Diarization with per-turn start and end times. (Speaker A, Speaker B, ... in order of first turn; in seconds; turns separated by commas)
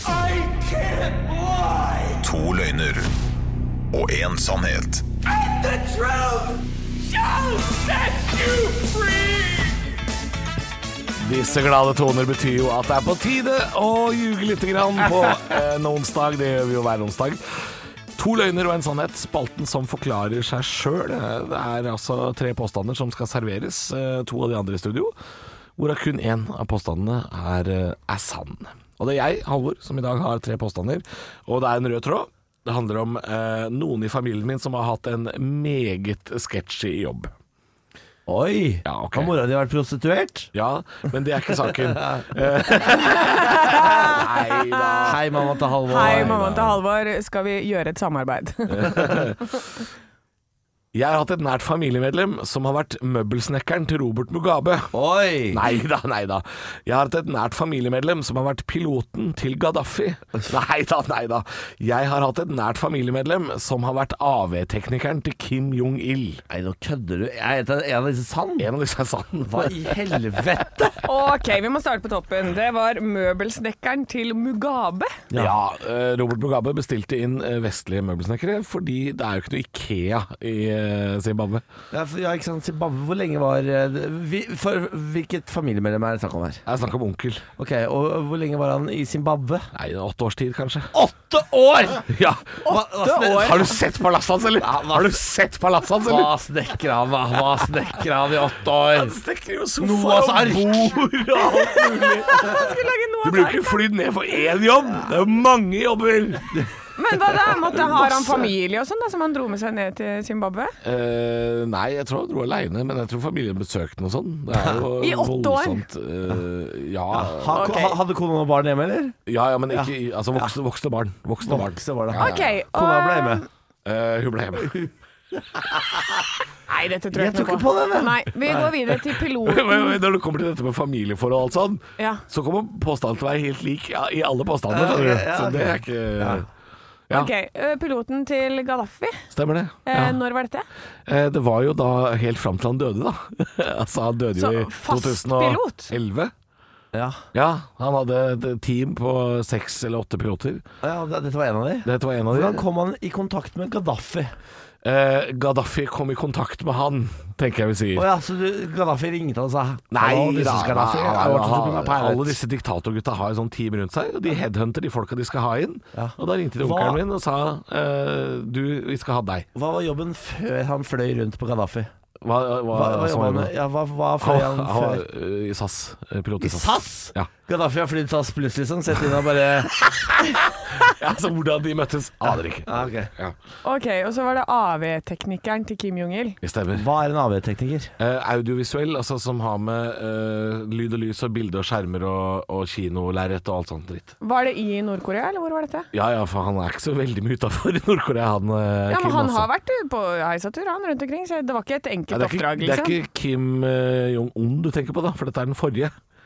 Speaker A: 0.5-1.8, Speaker B: 2.2-3.1, Speaker B: 3.9-5.0, Speaker C: 5.8-6.3, Speaker C: 7.4-9.6, Speaker C: 11.2-17.4, Speaker C: 18.1-25.1, Speaker C: 25.8-37.3, Speaker A: 38.2-40.5, Speaker C: 38.9-39.3, Speaker C: 40.5-45.2, Speaker A: 41.9-42.2, Speaker D: 43.1-45.1, Speaker A: 45.0-46.7, Speaker D: 45.9-49.3, Speaker C: 45.9-46.8, Speaker C: 48.7-49.4, Speaker C: 50.9-54.9, Speaker A: 54.9-55.6, Speaker C: 55.5-66.4, Speaker A: 66.5-68.7, Speaker C: 68.6-69.9, Speaker A: 69.4-71.0, Speaker D: 71.0-75.2, Speaker A: 75.3-75.5, Speaker C: 75.3-81.6, Speaker A: 81.9-86.6, Speaker C: 86.7-87.5, Speaker A: 87.6-89.7, Speaker C: 89.7-90.9, Speaker A: 90.9-93.7, Speaker C: 92.1-92.4, Speaker D: 92.6-93.7, Speaker C: 93.2-96.3, Speaker A: 94.6-95.2, Speaker A: 96.0-99.2, Speaker C: 98.8-102.6, Speaker A: 99.8-102.4, Speaker D: 101.4-103.8, Speaker C: 103.2-106.6, Speaker D: 107.0-110.7, Speaker C: 110.8-117.7, Speaker D: 115.0-115.8, Speaker A: 117.1-119.2, Speaker D: 117.5-118.0, Speaker C: 119.3-122.6, Speaker A: 119.7-120.5, Speaker A: 121.4-123.4, Speaker D: 122.2-123.5, Speaker C: 123.8-124.9, Speaker A: 125.6-126.0, Speaker D: 126.7-130.0, Speaker A: 127.1-128.6, Speaker C: 129.4-136.5, Speaker D: 132.0-132.2, Speaker A: 134.7-136.4, Speaker D: 137.1-139.3, Speaker C: 139.3-140.2, Speaker D: 139.8-140.7, Speaker C: 141.1-146.3, Speaker D: 144.3-145.9, Speaker A: 146.9-147.2, Speaker C: 147.3-150.6, Speaker A: 150.8-154.3, Speaker C: 151.8-152.6, Speaker C: 154.8-158.1, Speaker A: 157.9-162.4, Speaker C: 159.9-169.5, Speaker A: 165.9-167.0, Speaker A: 169.5-171.9, Speaker C: 172.2-173.5, Speaker A: 172.7-175.0, Speaker C: 174.2-177.3, Speaker A: 176.4-179.8, Speaker C: 180.7-183.3, Speaker A: 182.7-183.1, Speaker D: 183.6-186.4, Speaker C: 186.4-186.8, Speaker A: 186.7-187.9, Speaker C: 188.0-194.1, Speaker D: 194.2-195.9, Speaker C: 195.9-199.5, Speaker D: 198.9-202.9, Speaker C: 202.1-205.9